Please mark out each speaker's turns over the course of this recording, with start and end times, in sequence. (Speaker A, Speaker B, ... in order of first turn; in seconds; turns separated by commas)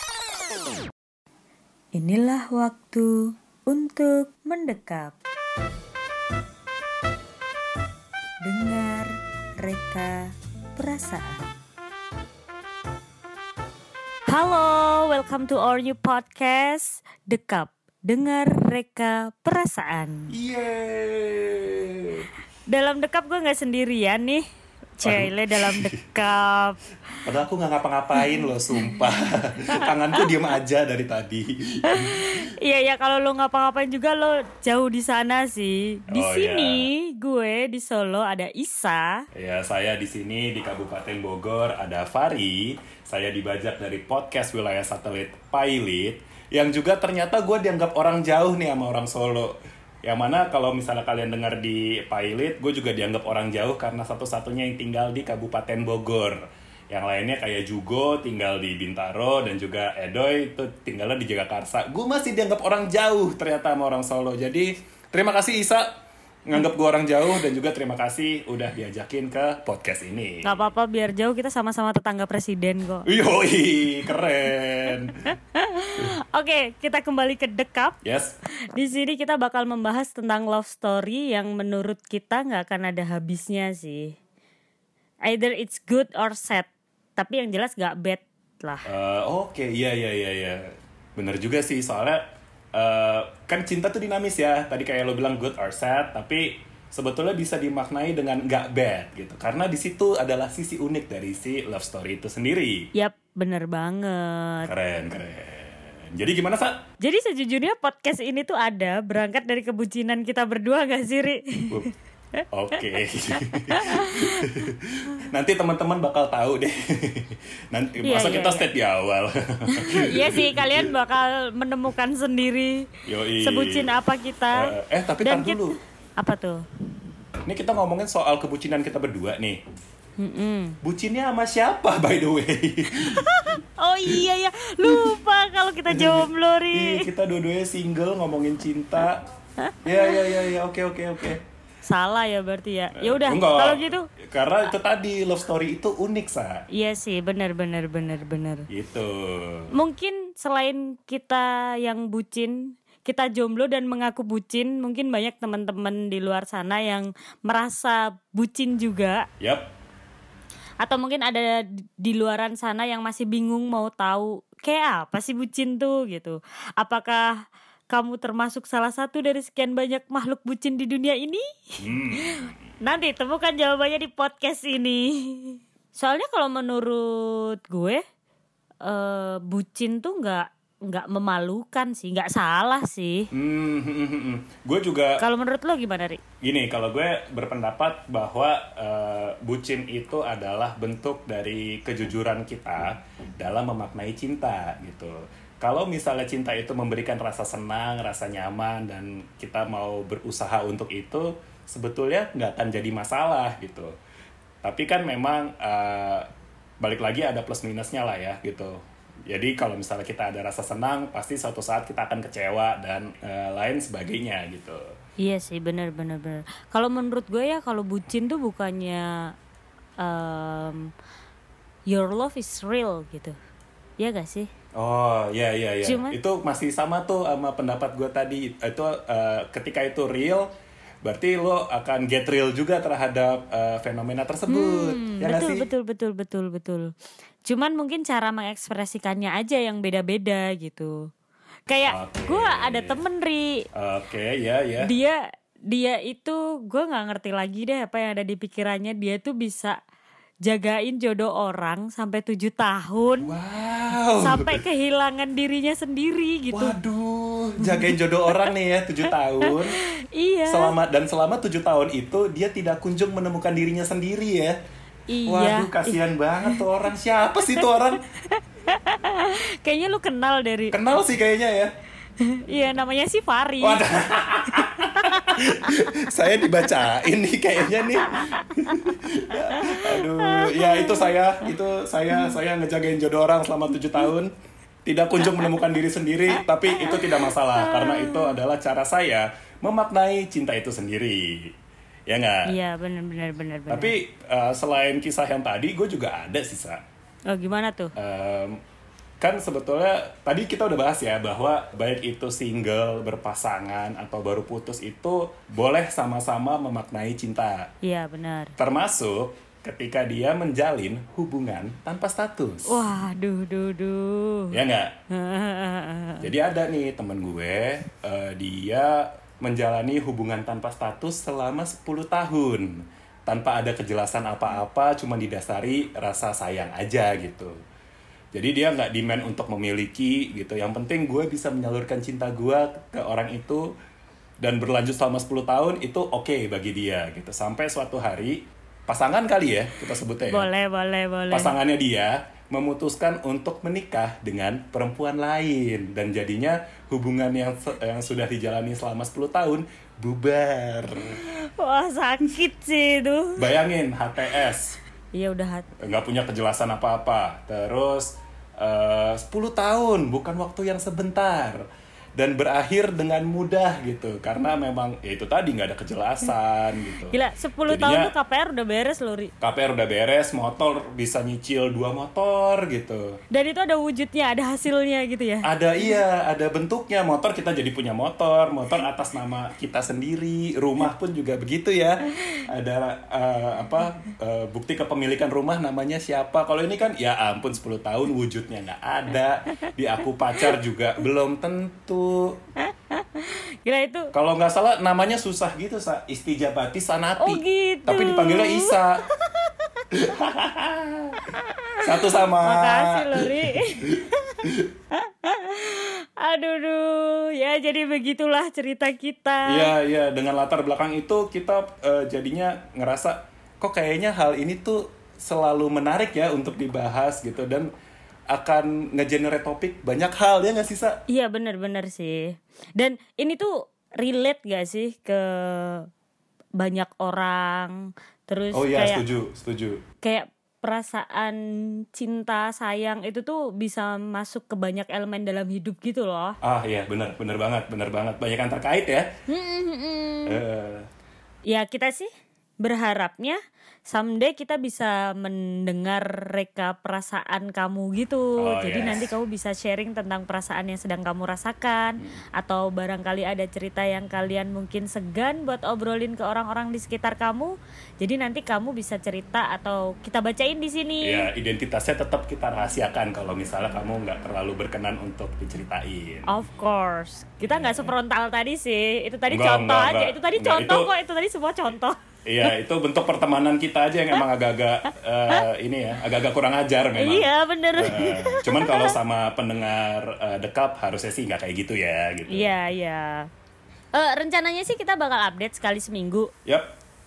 Speaker A: 1.9-3.1, Speaker A: 3.7-5.2, Speaker A: 8.4-11.5, Speaker A: 14.3-20.3, Speaker B: 20.3-22.3, Speaker A: 22.7-24.4, Speaker A: 25.0-26.8, Speaker B: 25.0-26.0, Speaker B: 27.2-32.4, Speaker A: 28.2-30.2, Speaker A: 31.9-39.3, Speaker B: 36.1-36.9, Speaker B: 39.3-65.9, Speaker B: 66.5-70.5, Speaker A: 70.4-73.1, Speaker B: 73.1-75.2, Speaker A: 75.1-78.0, Speaker B: 78.0-78.4, Speaker A: 78.7-84.2, Speaker A: 85.2-88.9, Speaker B: 88.9-92.2, Speaker B: 92.8-102.9, Speaker A: 103.0-104.7, Speaker B: 104.7-106.8, Speaker A: 107.0-111.9, Speaker B: 112.5-120.9, Speaker A: 113.6-114.7, Speaker A: 118.0-118.7, Speaker A: 119.7-122.9, Speaker B: 123.1-123.9, Speaker A: 123.4-124.7, Speaker B: 124.6-125.8, Speaker A: 125.2-126.6, Speaker B: 127.5-129.6, Speaker A: 130.2-130.8, Speaker B: 130.8-133.5, Speaker A: 133.0-137.1, Speaker B: 135.9-139.2, Speaker A: 139.6-140.5, Speaker B: 139.8-141.4, Speaker A: 141.9-144.1, Speaker B: 142.9-146.6, Speaker A: 146.7-148.7, Speaker B: 148.7-149.7, Speaker A: 149.7-159.3, Speaker B: 159.4-159.7, Speaker A: 160.8-167.3, Speaker A: 167.9-171.4, Speaker B: 171.8-172.5, Speaker A: 172.1-178.0, Speaker A: 178.8-183.3, Speaker B: 183.3-185.2, Speaker A: 185.2-186.2, Speaker B: 186.4-203.9, Speaker B: 204.6-206.3, Speaker B: 206.8-214.9, Speaker A: 215.2-219.3, Speaker A: 220.0-220.9, Speaker A: 221.9-223.4, Speaker A: 224.0-224.5, Speaker B: 224.8-230.5, Speaker A: 225.8-226.2, Speaker B: 231.0-235.7, Speaker A: 234.5-236.9, Speaker A: 237.5-241.1, Speaker A: 241.7-243.7, Speaker B: 241.9-243.0, Speaker B: 243.8-244.9, Speaker A: 244.8-249.8, Speaker A: 250.4-253.3, Speaker B: 253.2-254.6, Speaker A: 254.2-256.8, Speaker B: 256.5-259.8, Speaker A: 257.6-258.5, Speaker A: 259.4-260.8, Speaker B: 260.5-264.6, Speaker A: 265.1-266.7, Speaker B: 265.3-268.0, Speaker A: 267.5-270.8, Speaker B: 270.7-271.7, Speaker A: 272.2-273.8, Speaker B: 273.6-284.3, Speaker A: 274.5-276.1, Speaker A: 278.3-278.8, Speaker A: 279.5-281.5, Speaker A: 282.1-282.4, Speaker B: 284.9-291.5, Speaker A: 285.2-285.6, Speaker A: 286.3-288.4, Speaker B: 292.1-292.5, Speaker A: 292.5-293.9, Speaker B: 293.7-296.8, Speaker A: 297.3-297.9, Speaker B: 298.0-298.6, Speaker B: 299.2-307.7, Speaker A: 307.8-308.5, Speaker B: 308.6-312.8, Speaker A: 312.7-314.6, Speaker B: 314.5-314.9, Speaker A: 315.1-316.3, Speaker B: 316.2-327.6, Speaker B: 328.3-333.7, Speaker B: 334.4-340.5, Speaker A: 340.3-341.5, Speaker B: 341.3-351.2, Speaker A: 351.2-353.5, Speaker B: 353.4-354.8, Speaker A: 355.1-355.7, Speaker B: 355.8-361.6, Speaker B: 362.2-368.1, Speaker A: 367.1-369.3, Speaker B: 369.4-373.2, Speaker A: 373.3-375.5, Speaker B: 375.4-392.4, Speaker A: 392.6-394.1, Speaker B: 394.1-399.0, Speaker A: 397.2-399.0, Speaker B: 399.9-401.2, Speaker A: 401.4-409.7, Speaker B: 401.8-404.7, Speaker B: 409.5-417.7, Speaker B: 418.3-421.0, Speaker A: 421.1-425.9, Speaker A: 426.6-429.0, Speaker B: 428.5-429.8, Speaker A: 430.0-436.4, Speaker B: 436.4-439.1, Speaker A: 439.3-440.4, Speaker B: 440.3-440.9, Speaker A: 441.5-442.1, Speaker A: 442.6-461.3, Speaker B: 448.4-449.1, Speaker B: 461.0-466.3, Speaker A: 466.3-472.0, Speaker B: 467.5-467.9, Speaker B: 469.3-470.9, Speaker B: 472.3-482.5, Speaker A: 477.0-479.0, Speaker A: 482.3-483.3, Speaker A: 483.9-486.3, Speaker B: 486.4-486.7